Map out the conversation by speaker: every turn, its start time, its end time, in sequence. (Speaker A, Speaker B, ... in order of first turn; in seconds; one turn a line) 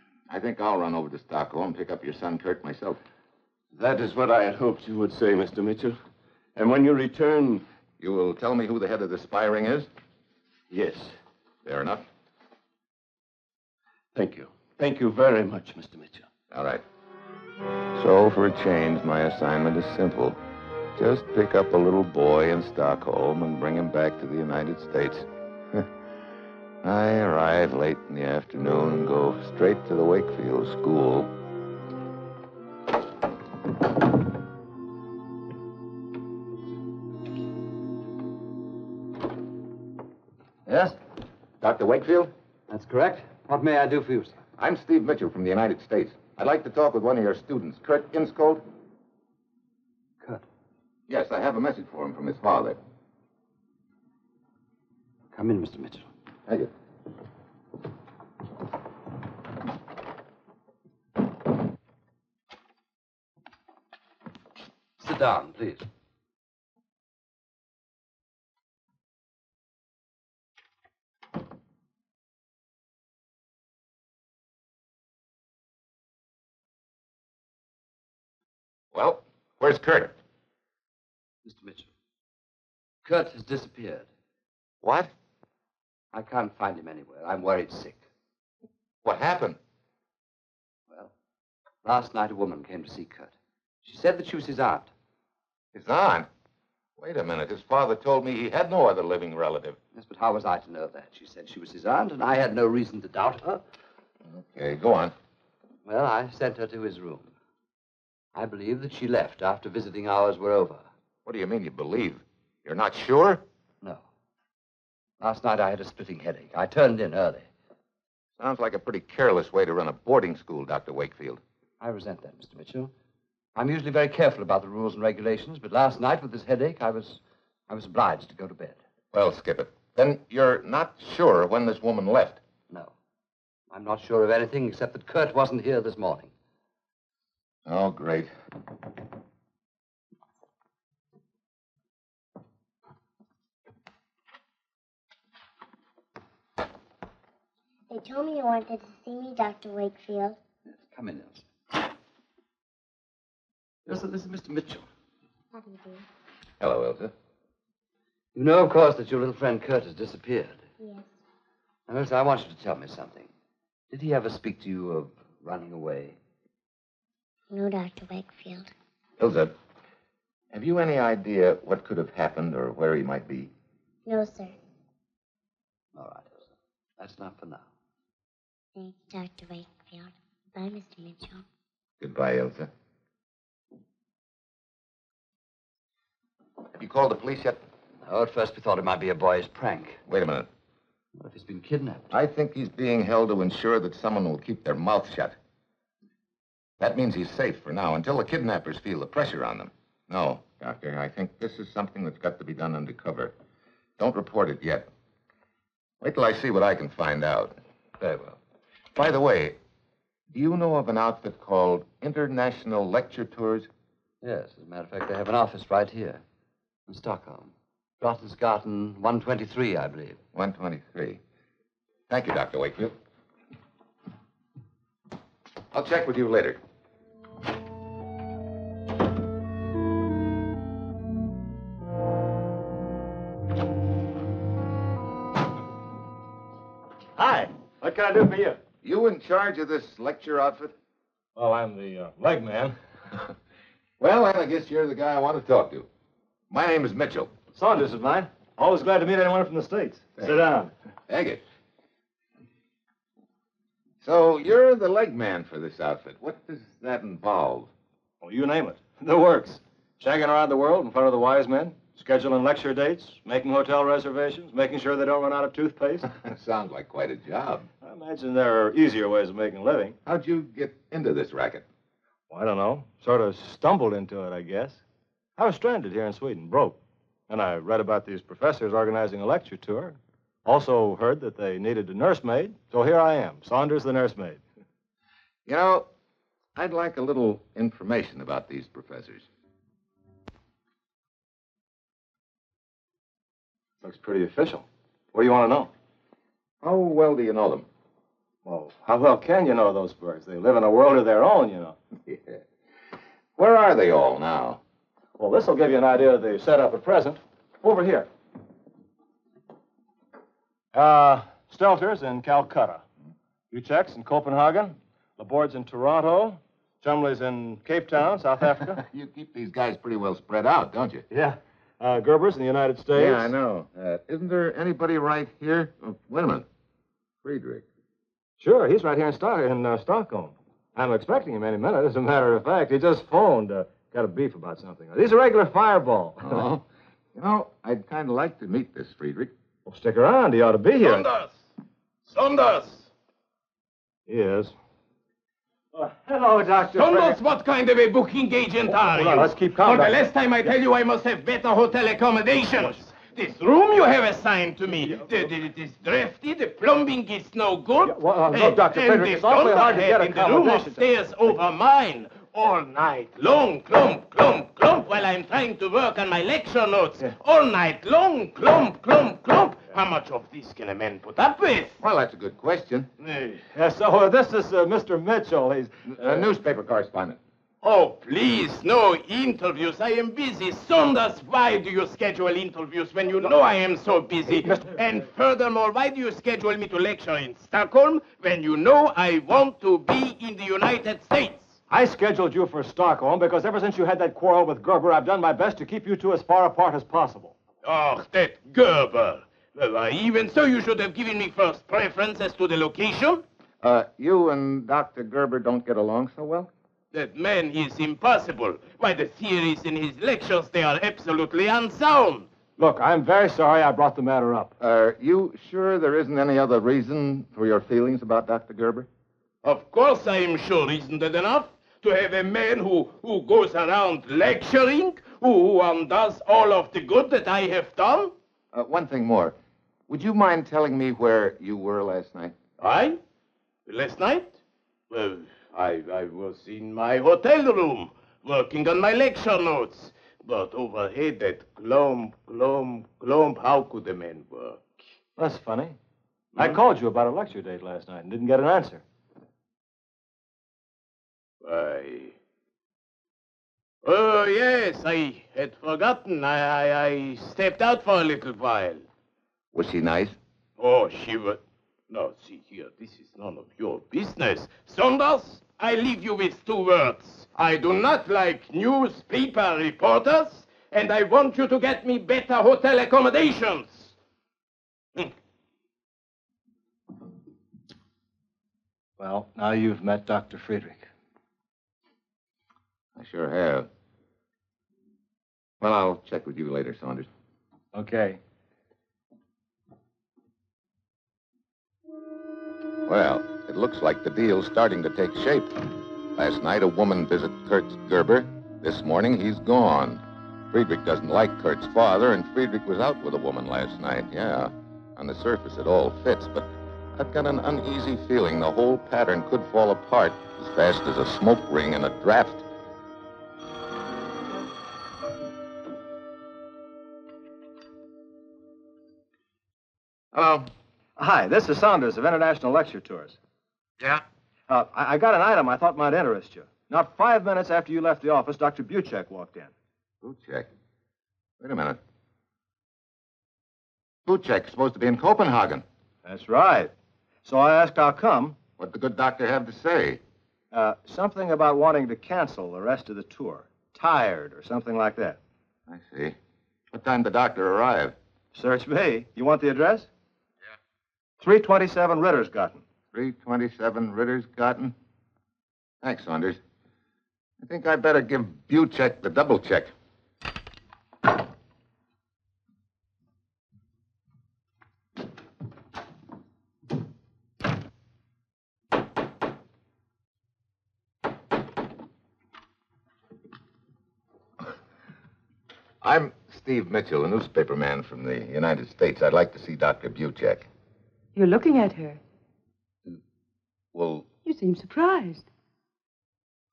Speaker A: 0.3-3.0
Speaker B: 3.7-6.0
Speaker B: 6.5-7.6
Speaker A: 8.0-9.9
Speaker B: 10.7-11.2
Speaker A: 11.6-12.0
Speaker B: 14.1-16.3
Speaker A: 16.5-16.8
Speaker A: 17.9-20.4
Speaker A: 20.9-25.9
Speaker A: 26.8-31.3
Speaker C: 40.7-40.9
Speaker A: 41.6-42.3
Speaker C: 42.7-44.4
Speaker A: 44.6-48.6
Speaker A: 51.1-52.8
Speaker C: 55.3-56.1
Speaker C: 65.0-65.8
Speaker A: 78.9-80.1
Speaker C: 81.4-81.9
Speaker C: 83.0-84.1
Speaker A: 84.8-85.1
Speaker C: 86.1-88.0
Speaker A: 89.0-89.6
Speaker C: 91.8-93.3
Speaker C: 93.8-94.9
Speaker A: 95.7-96.3
Speaker A: 97.0-99.8
Speaker C: 99.9-103.6
Speaker A: 104.3-105.1
Speaker C: 105.8-107.3
Speaker C: 108.3-110.9
Speaker A: 111.2-113.4
Speaker C: 115.2-117.5
Speaker A: 118.4-121.4
Speaker C: 121.8-122.9
Speaker C: 123.5-128.8
Speaker A: 129.1-132.4
Speaker C: 133.7-136.3
Speaker A: 137.7-138.3
Speaker D: 147.9-150.4
Speaker C: 150.7-151.5
Speaker C: 153.8-154.8
Speaker D: 155.5-156.0
Speaker A: 156.6-157.1
Speaker C: 158.3-160.6
Speaker D: 160.8-161.1
Speaker C: 161.9-163.3
Speaker C: 163.9-166.2
Speaker D: 167.5-168.7
Speaker A: 169.2-169.5
Speaker A: 170.5-173.5
Speaker D: 174.1-174.6
Speaker C: 175.9-176.5
Speaker C: 177.0-177.6
Speaker D: 178.7-181.4
Speaker A: 182.0-182.7
Speaker A: 186.7-187.6
Speaker C: 188.1-190.0
Speaker A: 190.1-190.5
Speaker C: 191.2-192.1
Speaker A: 192.1-195.3
Speaker A: 196.8-203.3
Speaker A: 204.0-204.9
Speaker A: 206.0-208.4
Speaker A: 208.9-209.6
Speaker A: 210.3-213.7
Speaker C: 214.2-216.2
Speaker C: 216.9-220.2
Speaker A: 220.3-221.2
Speaker A: 222.1-222.9
Speaker A: 225.7-226.6
Speaker E: 237.2-238.6
Speaker A: 238.8-240.7
Speaker E: 241.3-242.8
Speaker A: 244.0-245.9
Speaker A: 246.5-247.3
Speaker E: 247.5-250.7
Speaker A: 251.1-251.4
Speaker A: 254.0-257.7
Speaker E: 258.2-266.1
Speaker A: 266.1-267.7
Speaker E: 267.8-270.0
Speaker A: 270.1-271.6
Speaker E: 272.3-274.8
Speaker E: 275.4-276.8
Speaker E: 277.3-284.4
Speaker A: 285.4-285.9
Speaker A: 286.5-289.3
Speaker E: 293.8-295.7
Speaker A: 296.6-297.6
Speaker E: 298.4-301.8
Speaker A: 302.1-302.4
Speaker A: 303.4-304.6
Speaker E: 305.2-308.1
Speaker E: 310.7-312.8
Speaker E: 313.5-318.8
Speaker A: 318.8-321.1
Speaker E: 321.1-323.3
Speaker A: 322.9-326.5
Speaker A: 327.2-327.6
Speaker E: 328.4-336.4
Speaker A: 336.2-339.3
Speaker E: 339.6-341.1
Speaker F: 340.8-341.4
Speaker F: 342.1-342.9
Speaker E: 344.1-344.5
Speaker E: 345.7-347.2
Speaker F: 346.7-371.8
Speaker E: 348.7-349.9
Speaker E: 354.8-355.2
Speaker E: 357.8-360.9
Speaker A: 371.8-372.9
Speaker E: 373.0-376.3
Speaker A: 375.9-377.2
Speaker F: 377.6-391.6
Speaker E: 384.3-384.8
Speaker E: 391.7-397.3
Speaker F: 397.6-403.2
Speaker A: 403.6-406.5
Speaker F: 406.9-412.3
Speaker E: 412.6-414.5
Speaker A: 414.6-418.9
Speaker F: 419.4-428.1
Speaker A: 428.5-429.3
Speaker A: 429.9-432.4
Speaker F: 432.6-433.0
Speaker F: 433.7-434.4
Speaker F: 434.9-444.7
Speaker E: 445.2-445.8
Speaker E: 446.3-448.8
Speaker F: 451.4-452.1
Speaker F: 453.8-458.8
Speaker A: 459.5-460.2
Speaker F: 460.6-473.9
Speaker E: 479.0-480.9
Speaker A: 482.9-483.7
Speaker A: 485.6-487.1
Speaker E: 487.7-488.2
Speaker A: 492.9-512.5
Speaker A: 520.1-520.5
Speaker E: 521.0-523.2
Speaker E: 524.5-529.5
Speaker A: 530.0-530.5
Speaker A: 531.4-531.8
Speaker A: 534.0-535.6
Speaker E: 536.0-536.7
Speaker E: 537.2-538.4
Speaker A: 538.6-540.0
Speaker E: 540.5-545.2
Speaker A: 545.7-546.2
Speaker A: 546.7-548.0
Speaker E: 548.3-549.9
Speaker E: 551.2-552.6
Speaker A: 552.9-554.7
Speaker A: 555.8-556.4
Speaker A: 557.4-559.7
Speaker A: 575.8-580.5
Speaker G: 581.1-582.0
Speaker A: 583.7-584.1
Speaker G: 584.2-585.3